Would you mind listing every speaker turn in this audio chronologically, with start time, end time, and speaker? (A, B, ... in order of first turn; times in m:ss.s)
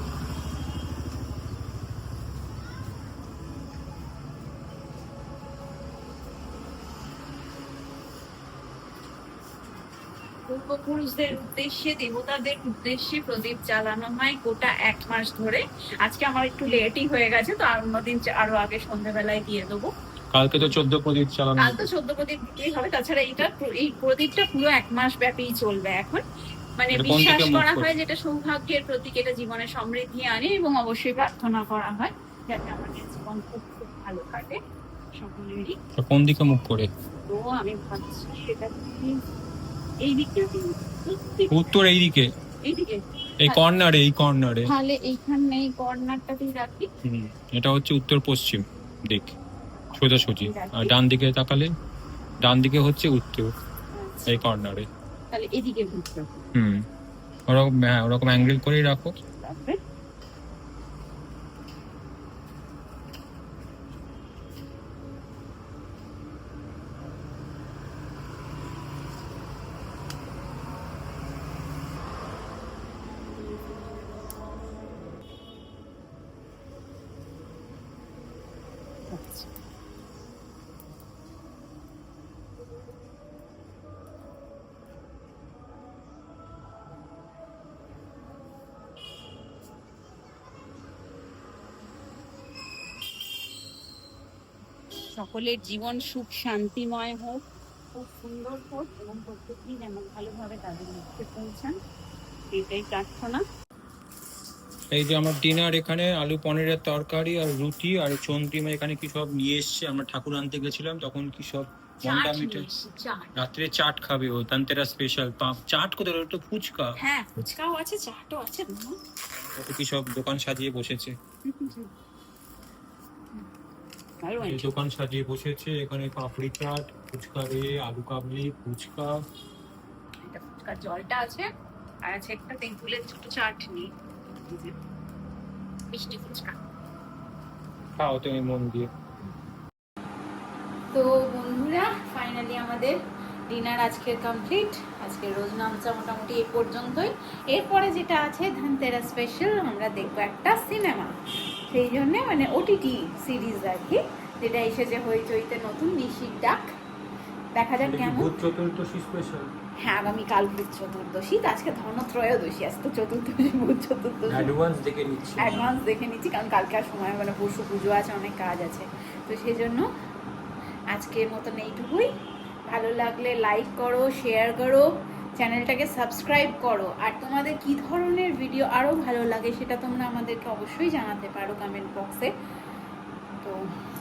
0:10.5-0:19.9 A
0:20.3-0:21.9 B
0:21.6-0:26.2 A
0:26.8-0:34.6 A
0:26.9-0:27.9 B
0:35.2-0:35.8 A
0:36.0-0:36.9 B
0:37.3-0:39.2 A
0:40.0-0:41.6 A
0:41.5-0:42.3 B
0:42.6-0:43.6 A
0:43.4-0:44.7 B
0:44.7-0:46.9 A
0:47.0-0:49.4 B
0:49.9-0:51.7 B
0:50.4-0:50.9 A
0:52.4-0:53.5 B
0:53.9-0:54.5 A
0:54.3-0:54.9 B
0:55.3-0:56.5 A
0:56.6-0:56.8 B
0:57.5-0:59.1 B
0:59.4-0:59.8 A
1:19.1-1:19.5 A
1:35.2-1:37.4 A
1:38.0-1:41.8 A
1:42.5-1:43.4 A
1:44.9-1:52.7 B
1:52.0-1:53.3 A
1:53.4-1:57.0 B
1:57.0-1:59.0 A
1:59.6-2:01.2 B
2:01.5-2:01.9 A
2:04.2-2:04.7 A
2:04.4-2:09.2 B
2:10.2-2:11.5 A
2:12.1-2:13.9 A
2:14.4-2:14.7 A
2:15.9-2:16.6 A
2:18.0-2:18.9 B
2:20.9-2:23.0 A
2:23.5-2:31.2 A
2:31.7-2:36.7 A
2:37.6-2:38.3 A
2:37.8-2:39.5 B
2:39.8-2:44.5 A
2:44.3-2:45.6 B
2:45.4-2:49.9 A
2:50.9-2:52.1 A
2:52.7-3:02.3 A